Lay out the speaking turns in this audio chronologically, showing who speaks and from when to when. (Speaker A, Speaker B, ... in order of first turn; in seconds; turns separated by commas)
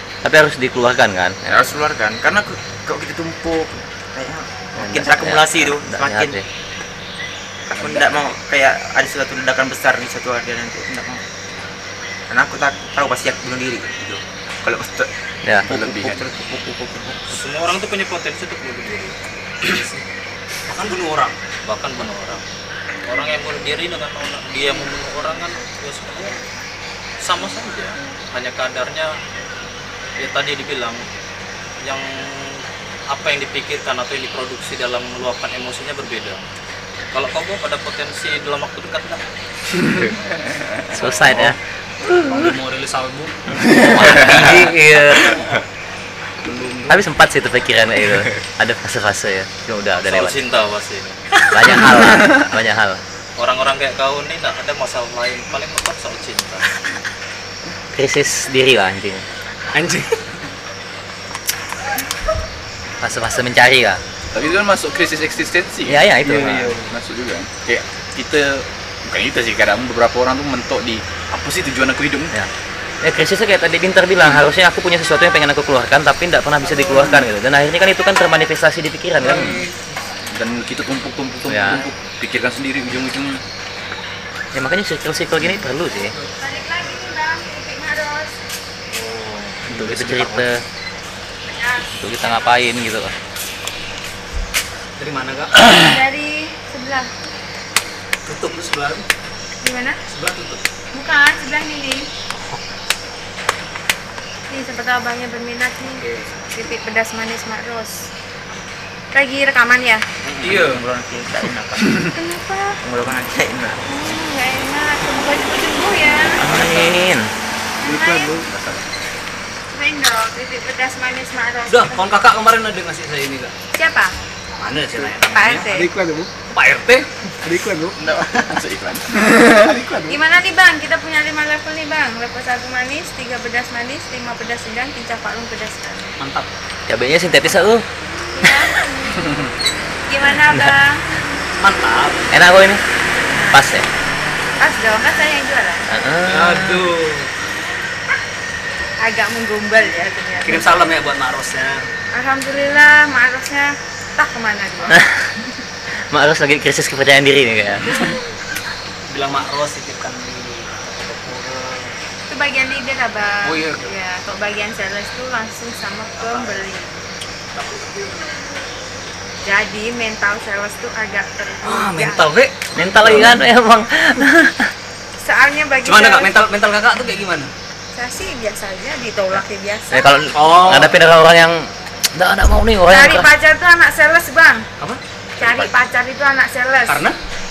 Speaker A: 0.2-1.4, Speaker B: 1.5-6.4, Speaker A: 4.8-6.5, Speaker B: 7.7-11.2, Speaker B: 12.3-17.4, Speaker A: 15.4-15.7, Speaker C: 15.7-16.3, Speaker D: 17.3-19.1, Speaker E: 19.6-20.0, Speaker E: 20.7-21.4, Speaker D: 21.7-22.4, Speaker D: 23.0-26.4, Speaker D: 27.2-29.2, Speaker D: 30.2-31.0, Speaker D: 31.8-36.4, Speaker D: 37.1-39.3, Speaker C: 39.8-41.5, Speaker A: 40.9-42.6, Speaker E: 42.1-45.6, Speaker C: 43.7-44.6, Speaker A: 43.8-45.4, Speaker E: 46.4-47.0, Speaker A: 46.9-50.4, Speaker D: 50.0-51.2, Speaker E: 51.3-51.8, Speaker A: 51.5-53.0, Speaker D: 53.4-56.9, Speaker A: 57.9-59.2, Speaker E: 59.7-60.3, Speaker A: 63.0-64.0, Speaker C: 64.3-72.3, Speaker A: 65.9-66.8, Speaker E: 66.2-66.9, Speaker A: 73.0-79.7, Speaker E: 79.2-79.8, Speaker C: 80.3-83.4, Speaker A: 81.5-81.9, Speaker A: 84.5-86.2, Speaker F: 86.4-88.3, Speaker E: 89.0-90.5, Speaker A: 89.7-90.6, Speaker F: 91.5-92.5, Speaker A: 91.9-93.1, Speaker E: 95.0-95.8, Speaker F: 95.7-97.1, Speaker E: 98.3-99.1, Speaker F: 99.6-100.0, Speaker E: 100.1-100.6, Speaker F: 100.9-102.1, Speaker F: 104.5-108.1, Speaker E: 106.0-106.4, Speaker F: 109.1-110.0, Speaker E: 110.3-110.8, Speaker B: 110.4-112.1, Speaker F: 112.1-112.8, Speaker B: 112.8-113.8, Speaker F: 113.9-116.5, Speaker A: 116.4-117.3, Speaker F: 117.8-118.5, Speaker C: 118.2-118.8, Speaker F: 119.7-122.2, Speaker E: 121.7-123.5, Speaker F: 123.7-124.1, Speaker E: 124.6-127.9, Speaker F: 125.3-126.1, Speaker C: 127.7-130.1, Speaker F: 130.1-136.2, Speaker E: 136.2-136.5, Speaker A: 136.9-137.8, Speaker F: 138.3-139.5, Speaker F: 140.1-141.0, Speaker A: 140.3-140.8, Speaker E: 141.6-142.3, Speaker A: 142.3-142.8, Speaker F: 143.3-143.6, Speaker A: 143.5-143.9, Speaker F: 144.6-145.9, Speaker A: 145.9-146.9, Speaker E: 146.2-147.3, Speaker F: 149.0-150.8, Speaker E: 150.4-151.8, Speaker F: 152.1-155.0, Speaker A: 156.1-158.0, Speaker E: 159.1-161.9, Speaker F: 162.3-167.0, Speaker E: 163.4-163.9, Speaker E: 167.6-168.3, Speaker F: 169.4-172.3, Speaker E: 171.6-173.4, Speaker A: 172.8-174.7, Speaker F: 175.2-176.4, Speaker E: 175.8-177.5, Speaker F: 177.9-180.3, Speaker A: 179.9-183.3, Speaker E: 180.3-180.9, Speaker F: 182.9-184.7, Speaker C: 185.4-185.8, Speaker F: 185.4-187.1, Speaker E: 186.9-187.2